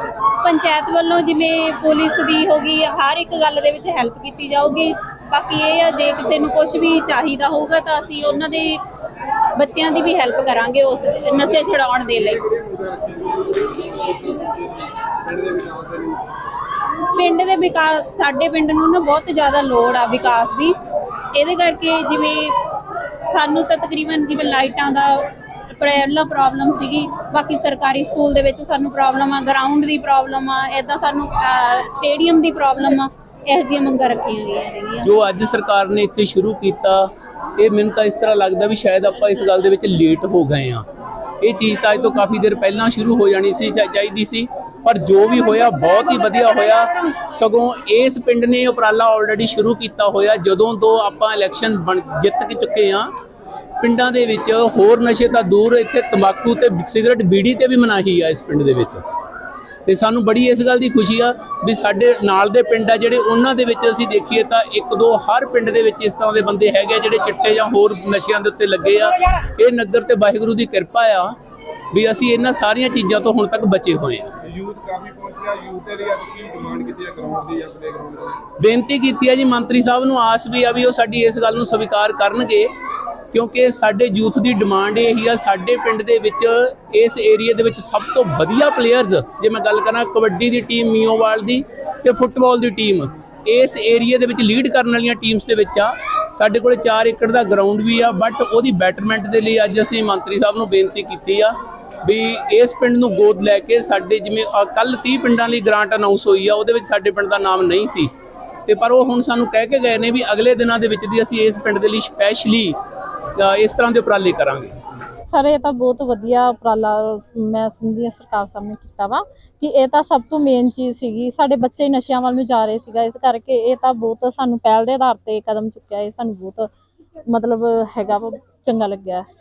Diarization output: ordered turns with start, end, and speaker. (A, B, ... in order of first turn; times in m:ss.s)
0:00.4-0:08.8 A
0:09.6-0:12.4 A
0:12.4-0:14.5 B
0:15.3-0:16.2 B
0:17.2-0:20.8 A
0:21.3-0:22.5 A
0:23.3-0:25.3 A
0:25.8-0:35.1 A
0:35.0-0:40.8 C
0:41.4-0:53.1 C
0:53.8-0:59.0 C
0:59.9-1:11.3 C
1:11.9-1:14.3 C
1:14.4-1:18.4 B
1:18.6-1:22.7 C
1:23.3-1:48.1 C
1:48.7-1:52.8 C
1:53.4-1:54.7 C
1:55.3-2:06.7 D
2:07.3-2:09.2 D